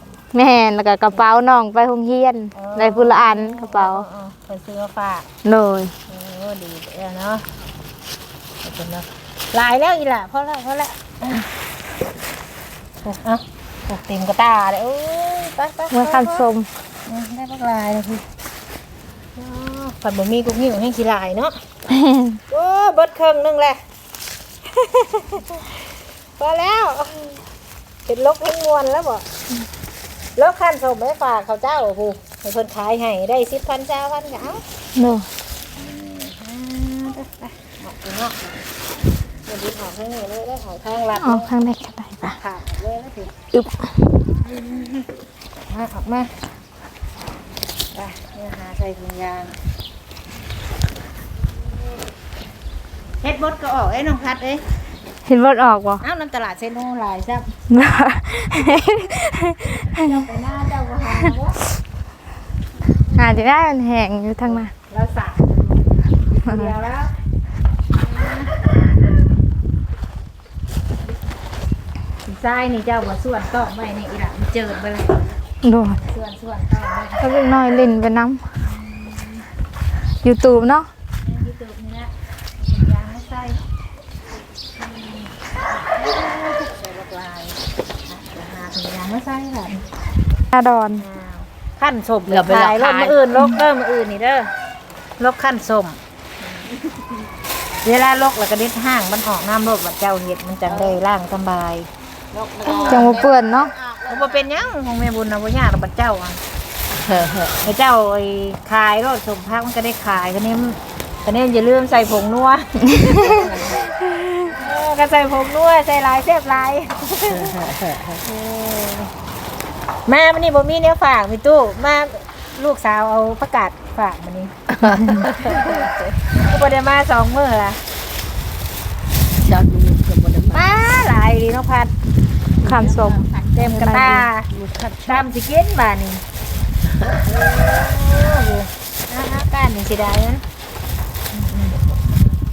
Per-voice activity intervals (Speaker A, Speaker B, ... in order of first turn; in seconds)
Speaker A: 0.3-4.0, 5.4-5.9, 15.9-16.7, 21.9-22.4, 35.0-35.3, 41.2-42.4, 43.5-43.9, 55.3-56.0, 57.7-60.2, 63.2-64.7, 66.5-66.7, 75.6-76.0, 77.2-78.4, 80.2-80.9, 90.5-91.0, 102.9-103.7, 112.8-113.5, 132.6-134.3
Speaker B: 2.5-5.3, 6.1-7.5, 8.6-11.5, 13.0-16.5, 17.1-18.3, 19.4-21.6, 22.5-23.8, 24.7-25.8, 26.4-27.4, 28.1-29.2, 30.4-34.6, 35.8-38.6, 39.5-41.5, 42.4-43.3, 44.5-45.1, 45.7-46.3, 47.9-49.6, 53.2-54.6, 56.0-57.5, 59.9-61.6, 64.8-65.8, 66.4-67.1, 68.0-69.3, 72.3-75.4, 75.9-77.2, 78.7-79.4, 81.2-83.6, 84.8-85.3, 85.8-89.8, 91.0-94.5, 95.2-96.7, 97.8-101.9, 102.7-103.3, 104.1-106.4, 107.6-119.1, 120.1-124.5, 125.1-127.8, 130.5-131.9, 133.5-134.5, 135.1-136.2, 137.2-140.4, 141.3-141.8
Speaker C: 92.3-93.2, 100.7-101.0, 102.3-104.6, 107.0-107.6, 113.4-113.8, 117.3-118.2, 124.7-125.9, 129.4-130.7, 132.6-135.2, 136.9-137.2